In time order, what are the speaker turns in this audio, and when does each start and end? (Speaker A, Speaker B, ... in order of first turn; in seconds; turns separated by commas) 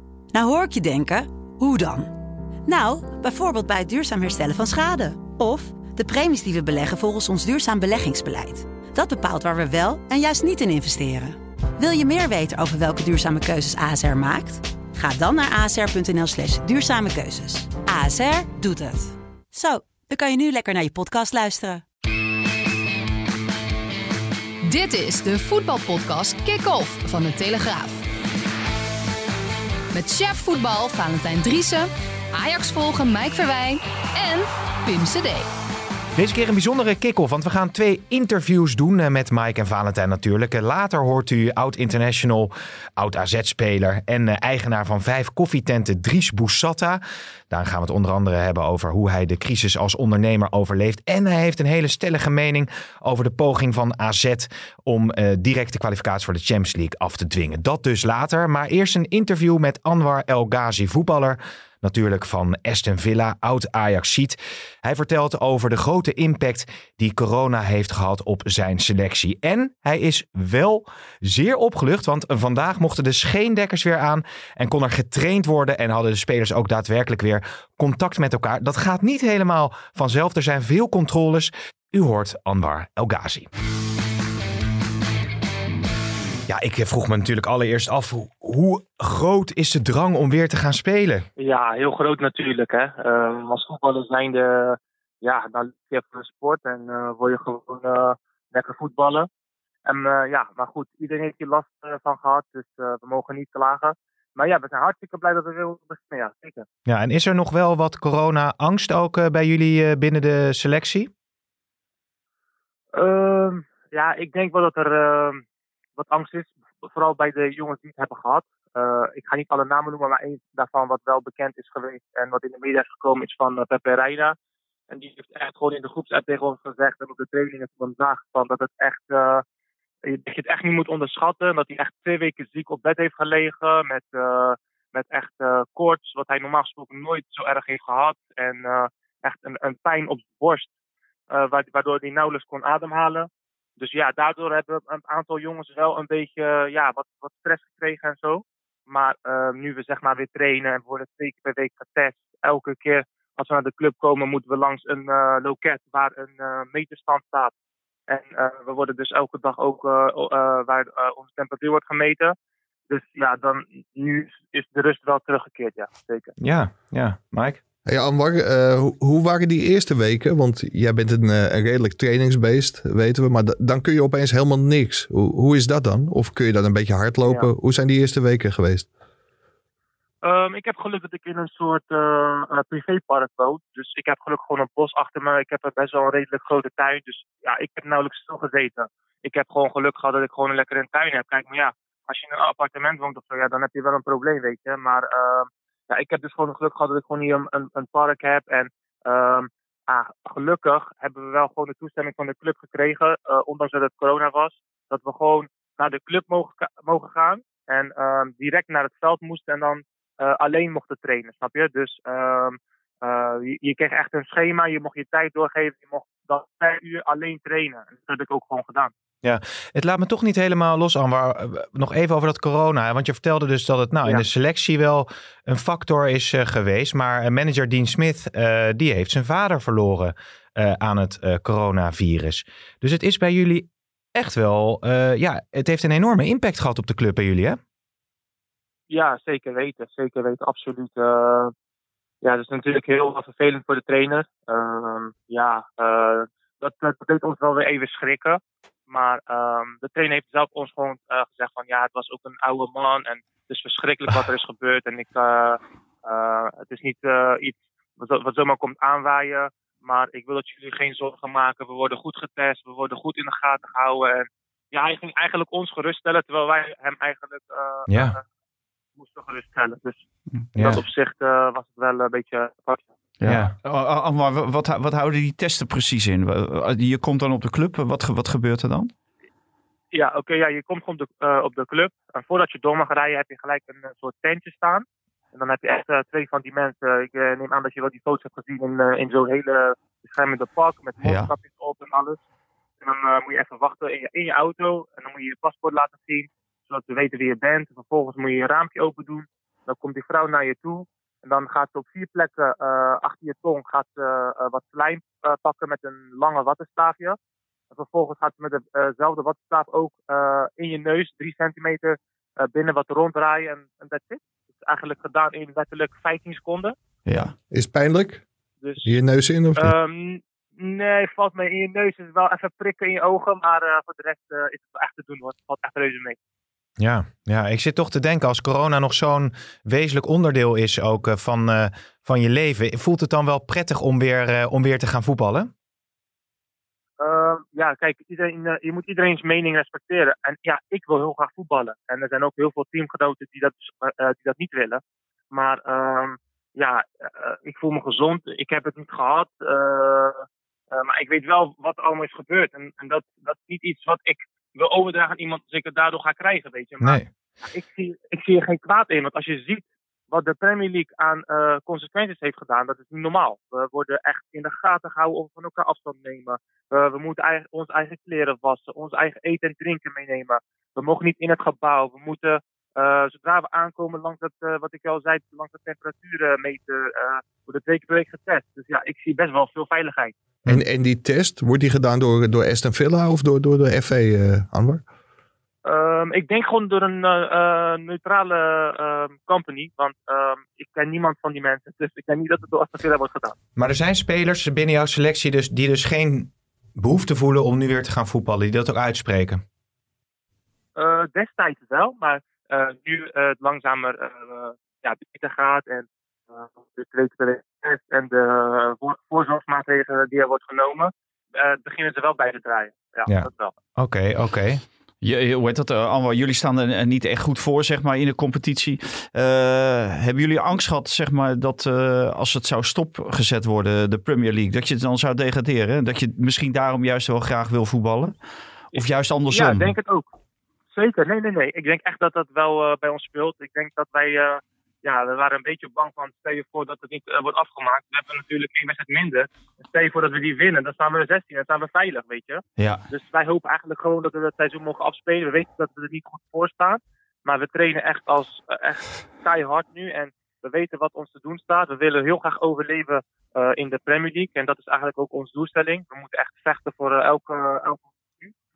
Speaker A: 0.3-2.1, Speaker A: 2.6-21.8, Speaker B: 24.6-28.0, Speaker B: 29.9-35.5, Speaker C: 36.1-83.5, Speaker C: 86.5-91.3, Speaker D: 91.4-99.3, Speaker D: 99.8-106.7, Speaker C: 106.9-111.1, Speaker D: 112.9-115.4, Speaker D: 116.0-124.3, Speaker D: 124.9-129.4, Speaker D: 130.1-140.7, Speaker D: 141.3-157.5, Speaker D: 158.1-162.3, Speaker D: 162.9-166.3, Speaker C: 166.4-167.6, Speaker E: 167.8-178.9, Speaker D: 180.2-218.9, Speaker C: 219.2-237.6, Speaker D: 238.9-241.5, Speaker D: 242.2-268.2, Speaker C: 267.9-268.1, Speaker D: 269.0-270.0, Speaker D: 270.5-272.9, Speaker C: 270.6-270.8, Speaker F: 273.2-278.9, Speaker C: 273.3-273.5, Speaker D: 279.9-292.2, Speaker F: 291.0-291.3, Speaker D: 292.8-307.2, Speaker D: 307.7-316.7, Speaker F: 317.1-317.3, Speaker E: 317.5-318.2, Speaker D: 318.6-318.9, Speaker E: 318.8-319.7, Speaker D: 319.6-326.2, Speaker C: 326.8-335.5, Speaker D: 337.0-380.1, Speaker C: 356.8-357.1, Speaker E: 380.4-384.8, Speaker D: 385.6-393.3, Speaker C: 393.6-399.4, Speaker D: 400.8-413.5, Speaker C: 413.1-414.6, Speaker F: 415.0-428.1, Speaker F: 428.7-429.7, Speaker D: 428.7-430.1, Speaker D: 430.7-458.3, Speaker F: 442.6-442.8